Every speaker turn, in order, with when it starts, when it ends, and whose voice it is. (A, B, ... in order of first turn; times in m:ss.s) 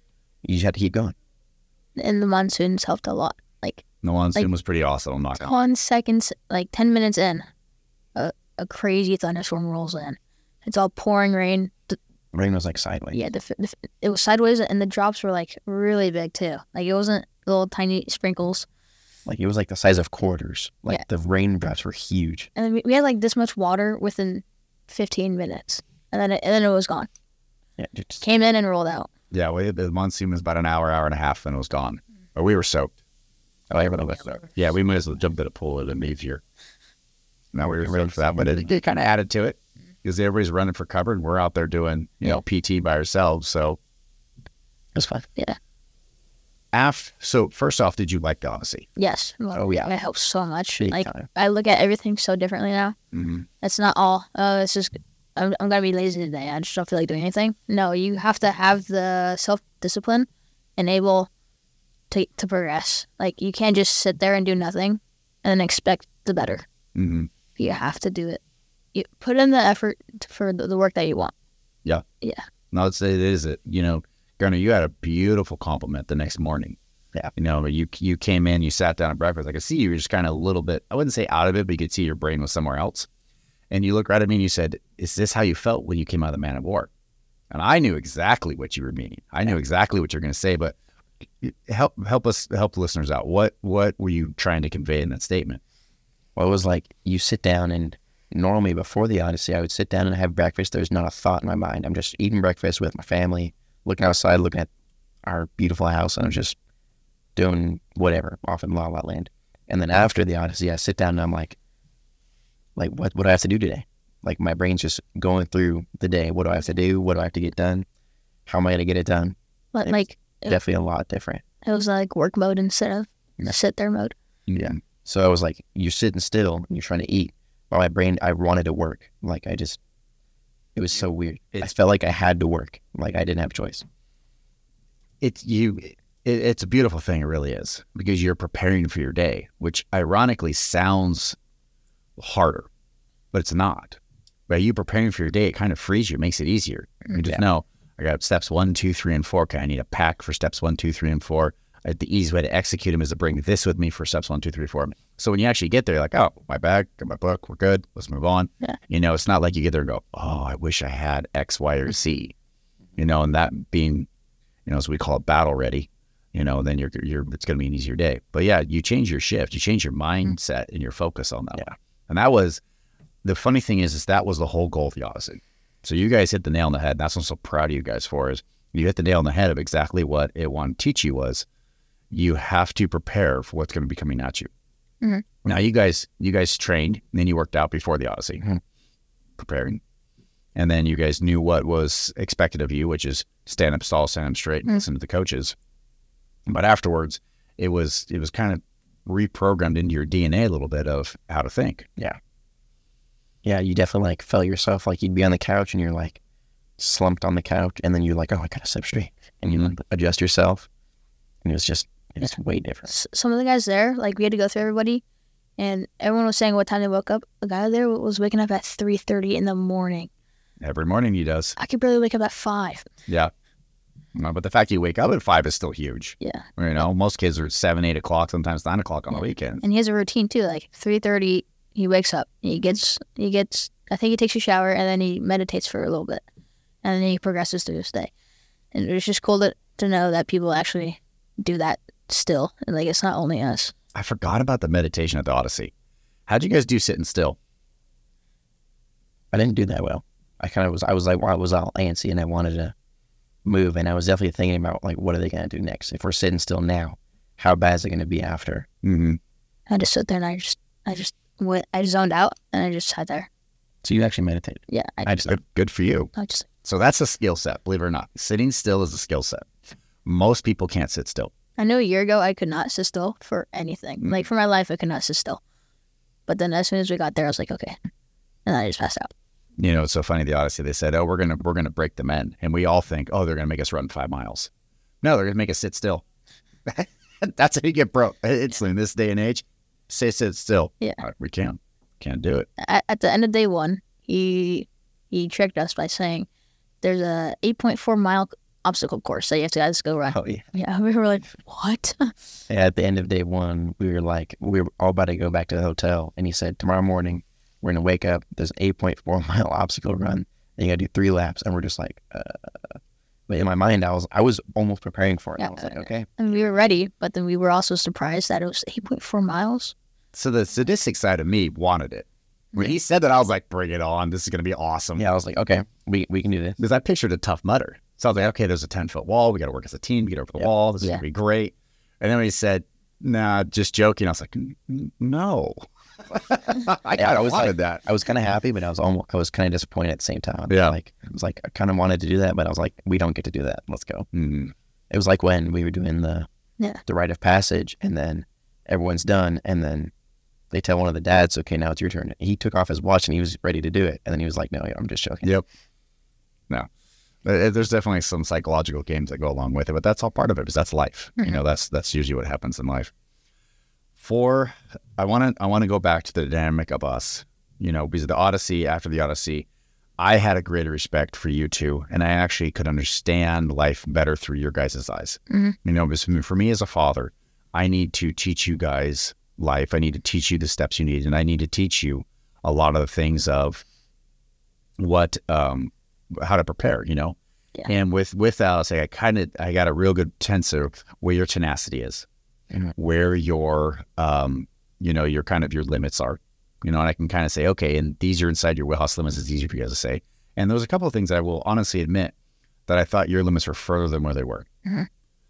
0:00.4-0:01.1 A
0:02.0-0:03.8 B
0:04.0-0:05.5 C
0:05.3-0:07.4 B
0:08.1-0:12.0 B
0:12.3-0:13.2 A
0:13.1-0:18.7 B
0:19.2-0:22.5 A
0:22.6-0:27.1 B
0:27.8-0:28.2 A
0:28.2-0:29.1 B
0:29.3-0:32.9 C
0:33.7-0:34.5 A
0:34.6-0:36.4 C
0:37.5-0:43.8 C
0:37.6-0:38.7 A
0:44.9-0:45.2 A
0:46.7-0:48.9 C
0:49.0-0:53.0 B
0:49.5-0:49.9 A
0:50.8-0:51.3 A
0:53.1-0:53.5 C
0:53.6-1:01.3 B
1:02.1-1:06.6 B
1:06.9-1:07.3 C
1:07.6-1:08.4 B
1:08.9-1:11.3 B
1:12.7-1:16.8 C
1:17.4-1:23.1 C
1:23.7-1:26.9 C
1:27.5-1:30.7 C
1:31.4-1:35.6 C
1:36.4-1:44.7 A
1:45.2-1:46.6 A
1:47.4-1:51.6 A
1:52.8-1:57.8 A
1:58.4-2:01.4 A
1:59.7-2:00.6 B
2:01.6-2:04.1 B
2:04.5-2:04.8 C
2:04.5-2:09.8 A
2:10.7-2:13.8 A
2:15.2-2:21.4 C
2:22.2-2:22.7 C
2:23.3-2:24.0 C
2:24.5-2:42.3 C
2:43.0-2:44.1 C
2:44.6-2:52.6 C
2:53.2-3:01.4 C
3:02.1-3:04.5 C
3:05.4-3:08.4 C
3:09.4-3:09.8 C
3:10.5-3:15.5 C
3:16.5-3:21.9 C
3:23.4-3:26.2 A
3:26.8-3:30.7 A
3:31.4-3:32.9 A
3:32.9-3:35.0 B
3:35.6-3:40.1 B
3:40.6-3:41.6 C
3:41.6-3:42.8 B
3:43.1-3:43.3 C
3:44.1-3:49.6 C
3:49.1-3:56.2 B
3:56.8-3:58.1 B
3:58.7-4:03.7 B
4:03.9-4:05.7 C
4:06.3-4:07.4 C
4:09.3-4:12.7 A
4:13.4-4:18.7 A
4:18.8-4:19.2 C
4:19.7-4:23.3 B
4:23.8-4:25.3 A
4:24.7-4:25.2 B
4:25.0-4:26.1 C
4:26.1-4:26.5 B
4:26.6-4:29.5 C
4:30.0-4:31.3 C
4:31.6-4:35.4 B
4:36.3-4:37.8 B
4:38.4-4:39.1 B
4:39.6-4:44.5 C
4:45.0-4:46.0 C
4:46.6-4:52.5 C
4:52.6-4:56.3 B
4:56.8-5:02.1 B
5:00.1-5:00.4 A
5:02.5-5:16.1 A
5:15.4-5:19.7 B
5:20.1-5:25.0 C
5:25.0-5:26.6 A
5:26.6-5:37.8 C
5:37.0-5:44.1 A
5:40.5-5:40.7 C
5:44.1-5:44.5 C
5:44.9-5:46.3 A
5:46.8-5:49.9 A
5:50.5-5:55.3 A
5:57.2-6:02.9 C
6:04.0-6:09.4 C
6:10.0-6:23.6 C
6:15.3-6:15.6 B
6:24.8-6:27.2 C
6:27.7-6:32.0 C
6:32.8-6:42.1 C
6:42.7-6:44.5 C